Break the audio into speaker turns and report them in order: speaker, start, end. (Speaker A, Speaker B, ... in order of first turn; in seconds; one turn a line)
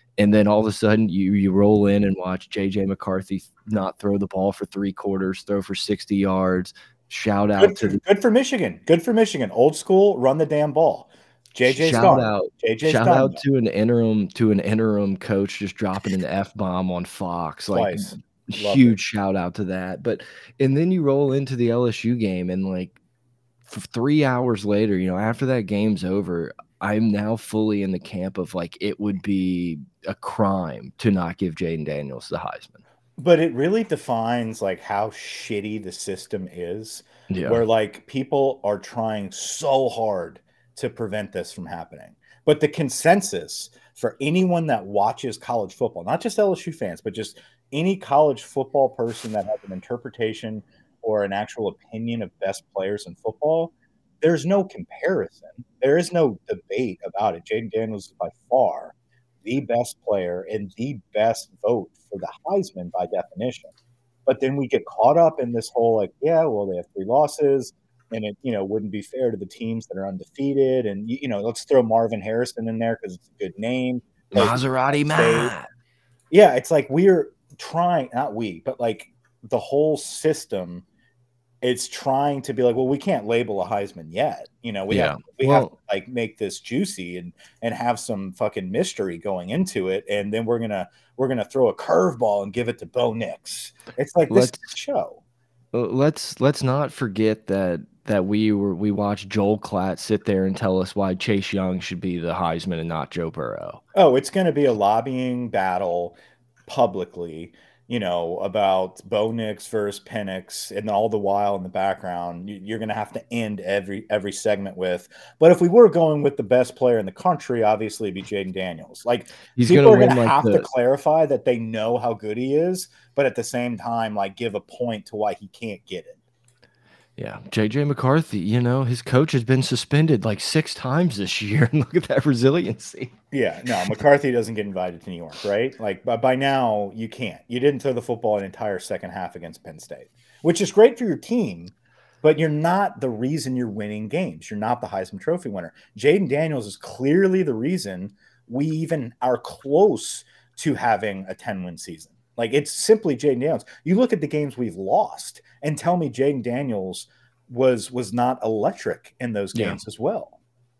Speaker A: 0.2-8.0
Speaker B: 7.6-13.4
Speaker A: 11.7-22.9
Speaker B: 17.7-19.0
Speaker A: 23.7-32.8
Speaker B: 33.2-63.7
Speaker A: 37.3-37.6
Speaker B: 64.2-75.5
Speaker A: 74.3-75.7
Speaker B: 76.3-80.8
Speaker B: 81.6-95.2
Speaker A: 84.9-85.7
Speaker A: 94.3-94.6
Speaker A: 95.7-103.8
Speaker B: 103.9-106.2
Speaker B: 106.7-126.2
Speaker A: 119.5-120.7
Speaker A: 127.2-133.1
Speaker B: 133.3-160.4
Speaker A: 159.5-159.8